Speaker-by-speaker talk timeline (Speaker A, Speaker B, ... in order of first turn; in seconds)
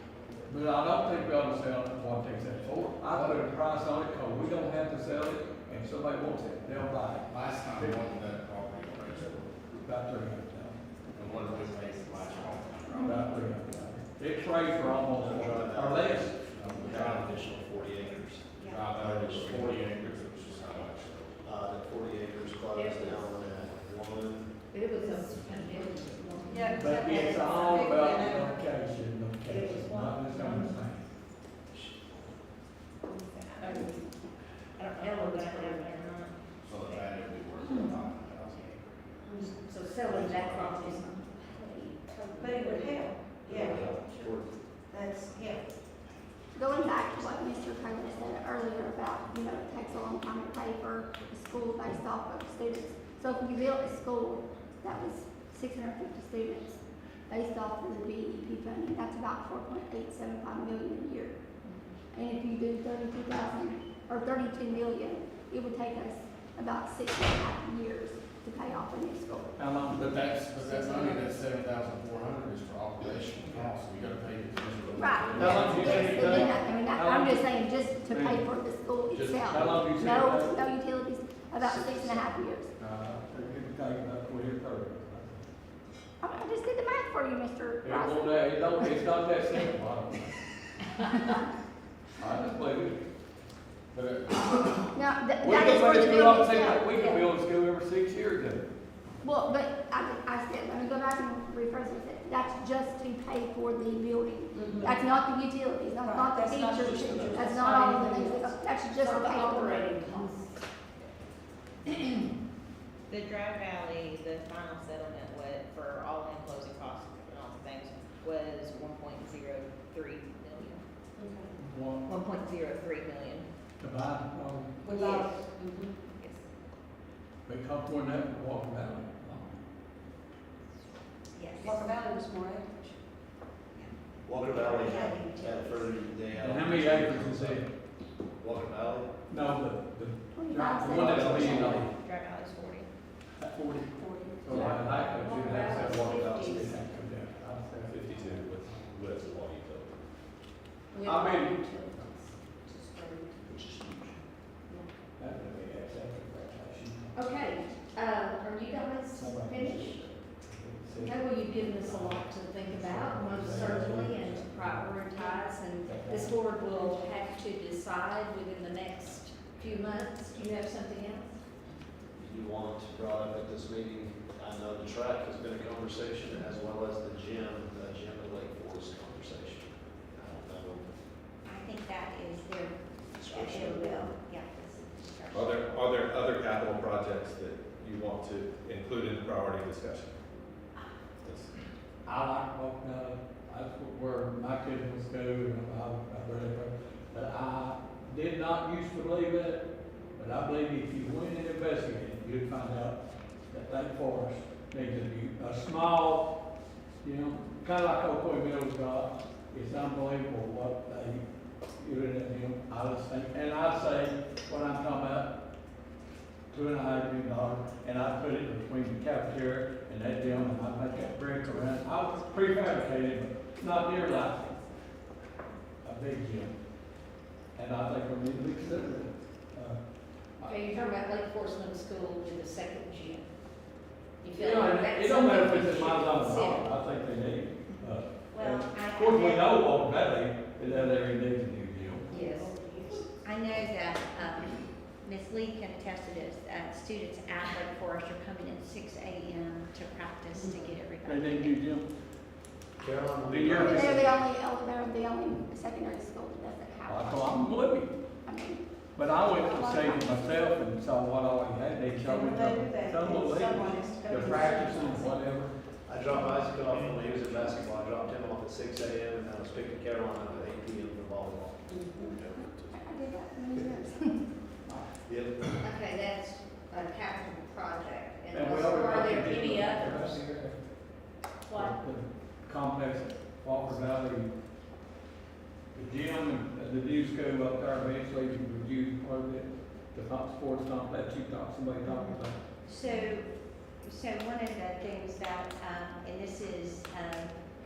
Speaker A: 0.5-8.0, 9.8-10.8, 12.9-17.2, 26.8-31.0, 69.6-70.2, 75.3-78.5, 79.4-80.6, 82.8-85.5, 87.8-90.5, 92.2-93.0, 95.4-98.6, 121.6-122.1, 123.8-124.8, 127.5-129.6, 136.4-137.7, 139.3-141.9, 143.4-143.9, 144.4-148.8, 151.1-151.5, 153.5-154.2, 155.2-157.2, 159.2-164.9, 165.8-166.4, 192.1-199.7, 200.2-203.0, 203.5-206.3, 207.0-211.2, 211.8-215.4, 216.5-224.6, 225.8-226.5, 227.6-229.8, 230.4-230.7, 234.3-242.1, 251.0-251.9, 253.2-254.1, 256.9-257.9, 259.0-265.5, 266.7-267.3, 278.3-280.6, 281.5-284.3, 285.8-292.4
Speaker B: 3.1-3.5, 7.3-9.5, 11.1-13.9, 16.5-17.5, 18.6-21.4, 36.6-39.0, 39.5-40.9, 43.5-43.8, 69.9-76.5, 79.1-79.9, 93.9-95.0
Speaker C: 15.1-24.5, 31.7-32.3, 43.4-44.5, 74.9-76.2, 81.6-82.2, 106.8-107.5, 134.3-137.6, 138.4-139.1, 140.9-141.8, 145.8-146.6, 172.2-180.9, 183.2-184.1, 252.8-254.2, 265.9-272.8, 275.0-275.5
Speaker D: 22.7-23.4, 24.7-26.6, 35.2-36.2, 40.6-41.2, 109.0-110.5, 111.9-112.2, 145.0-146.8, 150.9-153.4, 157.1-160.1, 161.0-171.3, 230.5-233.3, 234.2-236.7, 275.6-277.5, 278.3-280.3, 281.4-281.8
Speaker E: 26.5-28.6, 29.6-30.1, 33.1-33.6, 39.2-39.6, 42.4-43.9, 44.9-45.6, 104.5-105.0, 106.0-108.5, 121.2-121.5, 124.8-126.0, 131.6-132.9, 134.8-135.6, 143.6-144.9, 242.1-243.1, 250.3-250.8, 262.0-265.2, 271.7-272.2
Speaker F: 33.2-34.0, 34.8-37.1, 43.5-44.3, 113.1-120.8, 122.1-123.5, 124.9-125.2, 134.6-134.9, 141.8-142.9
Speaker G: 33.7-34.0, 34.8-36.2, 39.6-43.2, 131.4-131.8, 181.5-185.7, 234.8-236.0, 238.3-239.6, 242.1-242.6, 243.2-251.6, 275.7-278.8, 292.7-293.3, 293.8-297.3
Speaker H: 46.5-61.4, 62.1-69.5, 75.0-82.7, 86.2-88.9, 94.9-97.2, 99.2-110.0, 140.3-141.8, 253.5-257.4, 258.2-258.6, 259.2-260.2, 271.9-274.3
Speaker I: 144.5-144.8, 147.8-150.0, 185.3-190.2, 191.2-191.5